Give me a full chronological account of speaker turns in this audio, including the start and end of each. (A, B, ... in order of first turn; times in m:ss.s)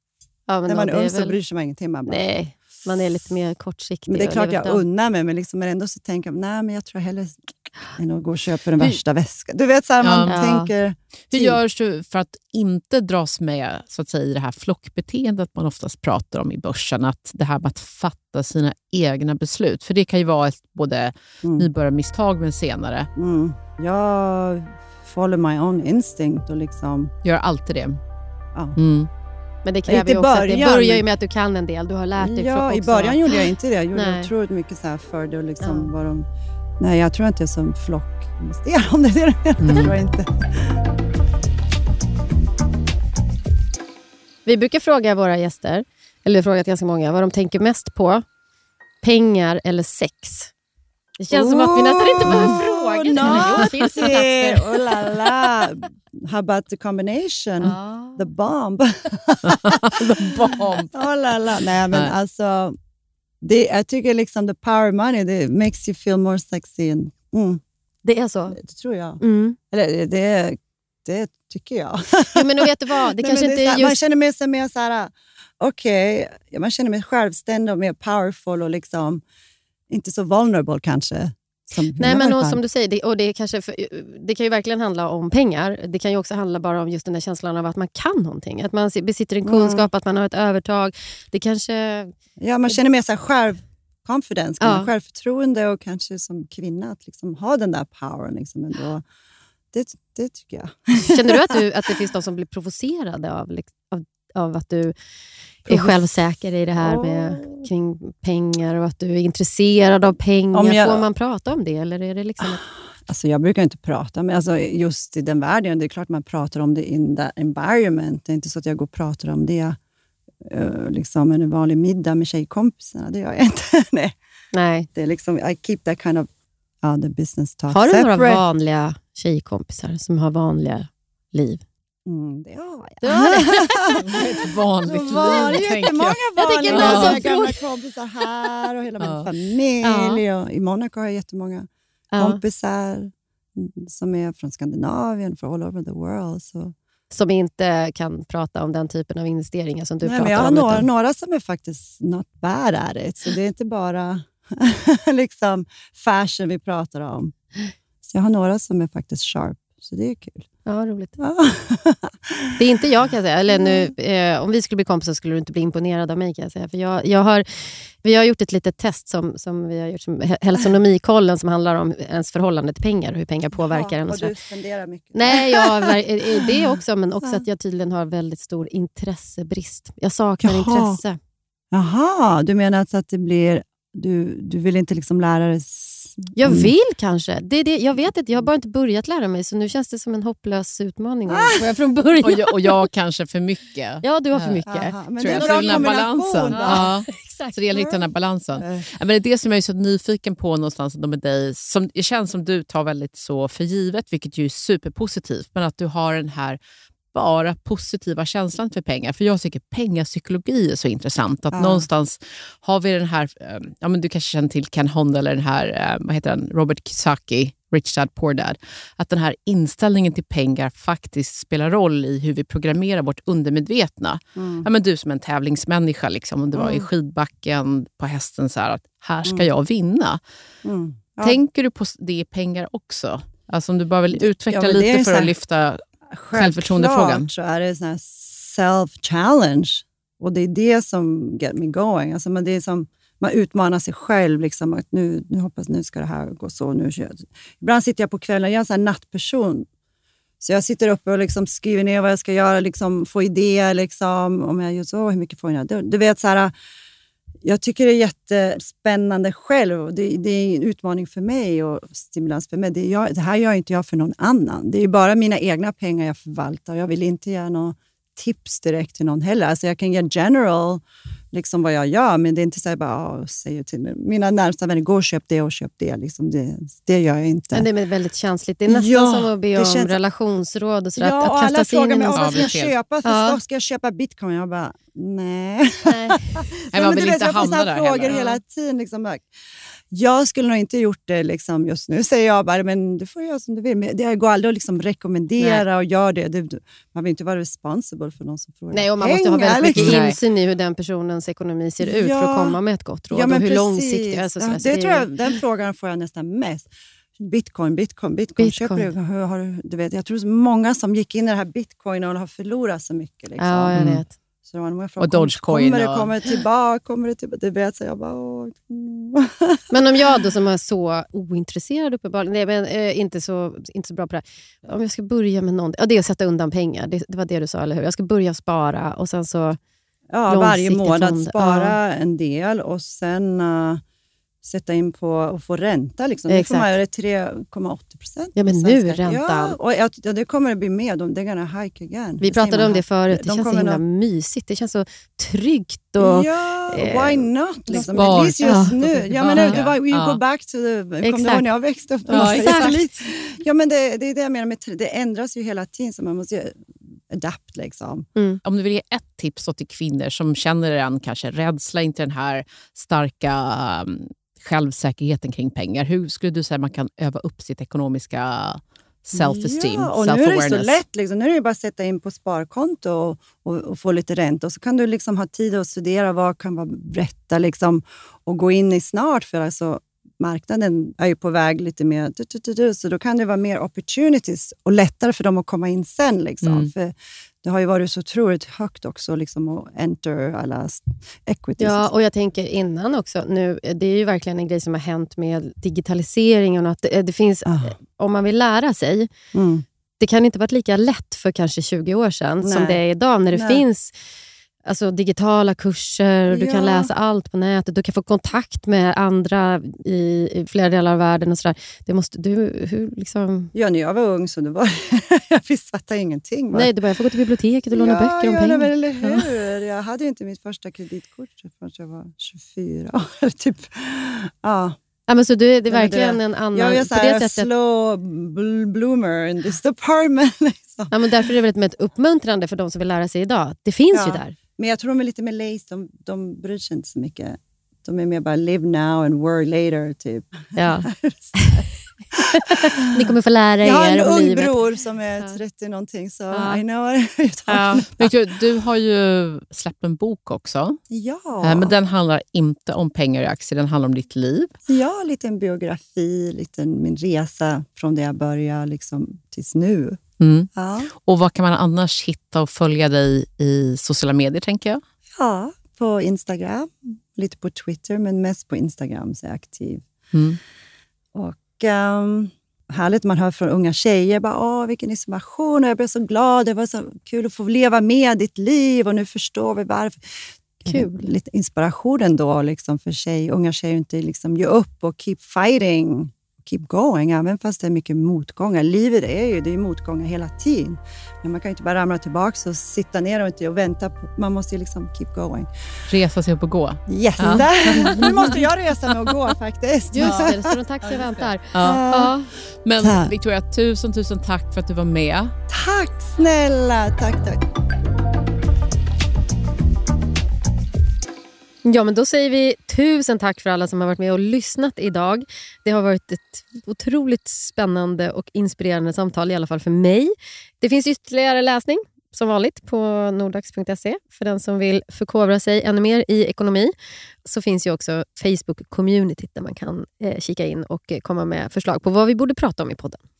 0:00.5-0:01.4 A
0:00.7-0:02.3 B
0:02.1-0:04.8 A
0:04.1-0:11.6 B
0:10.0-0:10.4 C
0:10.3-0:10.7 A
0:11.3-0:23.1 C
0:21.4-0:21.7 B
0:23.2-0:27.1 B
0:27.2-0:28.0 C
0:28.8-0:29.1 C
0:29.6-0:34.3 A
0:29.9-0:31.0 B
0:32.2-0:36.3 B
0:35.6-0:35.9 A
0:36.8-0:40.8 B
0:39.6-0:39.9 C
0:44.4-0:48.2 A
0:49.0-0:50.5 A
0:51.2-0:55.5 A
0:51.3-1:02.8 B
0:53.2-0:53.6 C
0:57.6-0:58.3 A
0:59.5-1:00.9 C
1:03.4-1:07.6 B
1:08.0-1:08.6 A
1:08.5-1:19.2 B
1:09.2-1:09.6 A
1:12.3-1:14.0 A
1:19.9-1:22.6 B
1:22.0-1:32.1 A
1:29.4-1:29.9 B
1:32.4-1:39.0 B
1:34.6-1:34.9 A
1:39.7-1:41.6 B
1:41.1-1:45.0 A
1:45.7-1:52.6 A
1:45.7-1:46.1 B
1:46.8-1:47.7 B
1:50.5-1:51.1 B
1:52.4-1:59.8 B
2:00.4-2:04.2 B
2:04.5-2:04.9 A
2:05.0-2:06.3 B
2:06.8-2:08.4 B
2:07.7-2:11.6 A
2:12.1-2:14.2 B
2:13.0-2:14.2 A
2:14.0-2:17.3 C
2:14.8-2:26.7 B
2:15.1-2:15.7 A
2:16.4-2:17.6 A
2:19.0-2:19.3 C
2:19.8-2:20.2 A
2:22.1-2:22.4 A
2:27.1-2:30.9 A
2:30.0-2:37.3 B
2:38.0-2:40.5 B
2:40.7-2:41.2 A
2:41.2-2:42.5 B
2:42.6-2:54.3 A
2:43.5-2:43.9 B
2:53.6-2:56.0 B
2:55.1-3:01.2 A
3:00.4-3:01.0 B
3:01.7-3:06.7 B
3:06.4-3:12.8 A
3:11.3-3:11.6 B
3:12.2-3:14.6 C
3:14.0-3:16.0 A
3:14.6-3:16.9 B
3:15.2-3:26.6 C
3:16.5-3:18.0 A
3:17.8-3:18.0 B
3:18.6-3:18.9 B
3:27.1-3:50.2 C
3:31.5-3:31.9 B
3:44.4-3:44.7 B
3:46.6-3:46.9 B
3:50.6-3:51.4 B
3:51.2-3:55.8 C
3:54.2-3:55.4 B
3:56.1-4:09.7 B
3:56.3-3:57.3 C
4:10.4-4:16.5 B
4:17.4-4:37.7 B
4:37.5-4:43.4 A
4:38.7-4:40.0 B
4:41.0-4:49.3 B
4:42.1-4:42.8 C
4:45.9-4:46.4 A
4:46.7-4:48.2 C
4:48.1-4:48.4 A
4:49.9-5:00.0 B
4:55.4-4:55.6 A
4:58.7-5:05.4 A
4:59.7-5:00.2 C
5:01.8-5:02.6 B
5:03.1-5:13.9 B
5:08.4-5:08.9 A
5:13.4-5:14.2 A
5:13.8-5:14.0 C
5:14.4-5:20.3 B
5:15.0-5:16.1 C
5:19.7-5:29.6 A
5:30.1-5:33.8 B
5:30.3-5:31.8 A
5:34.4-5:43.8 B
5:36.3-5:36.8 A
5:38.4-5:39.6 A
5:42.2-5:49.6 A
5:46.0-5:58.1 B
5:47.7-5:50.2 C
5:51.0-5:51.5 A
5:52.1-5:52.8 C
5:52.1-5:52.8 A
5:58.4-6:10.8 C
6:09.1-6:31.9 B
6:26.4-6:26.7 C
6:31.6-6:39.1 A
6:37.5-6:37.8 B
6:39.3-6:39.6 B
6:40.0-6:44.0 A
6:42.4-6:42.8 B
6:43.3-6:43.6 B
6:44.6-6:53.5 A
6:46.3-6:46.9 B
6:53.5-6:56.7 B
6:56.5-6:59.4 A
6:57.7-7:04.8 B
7:05.1-7:07.5 A
7:05.7-7:11.3 B
7:10.9-7:14.4 A
7:13.9-7:21.6 B
7:20.6-7:21.7 A
7:22.4-7:24.6 A
7:23.6-7:28.1 B
7:26.3-7:26.6 A
7:27.5-7:27.8 A
7:27.8-7:30.8 C
7:30.9-7:31.8 B
7:31.4-7:34.5 C
7:34.7-7:40.0 B
7:40.2-7:40.5 C
7:40.6-7:40.9 B
7:41.0-7:44.8 C
7:45.2-7:49.9 B
7:50.1-7:50.4 C
7:51.1-8:00.0 B
8:00.6-8:15.5 B
8:00.7-8:01.1 A
8:15.9-8:18.4 C
8:16.9-8:20.6 B
8:17.2-8:18.3 A
8:19.9-8:22.3 A
8:20.0-8:20.3 C
8:21.5-8:21.8 C
8:21.6-8:22.2 B
8:22.6-8:25.3 C
8:22.8-8:23.1 B
8:25.5-8:27.4 B
8:31.6-8:46.7 A
8:47.2-8:53.0 A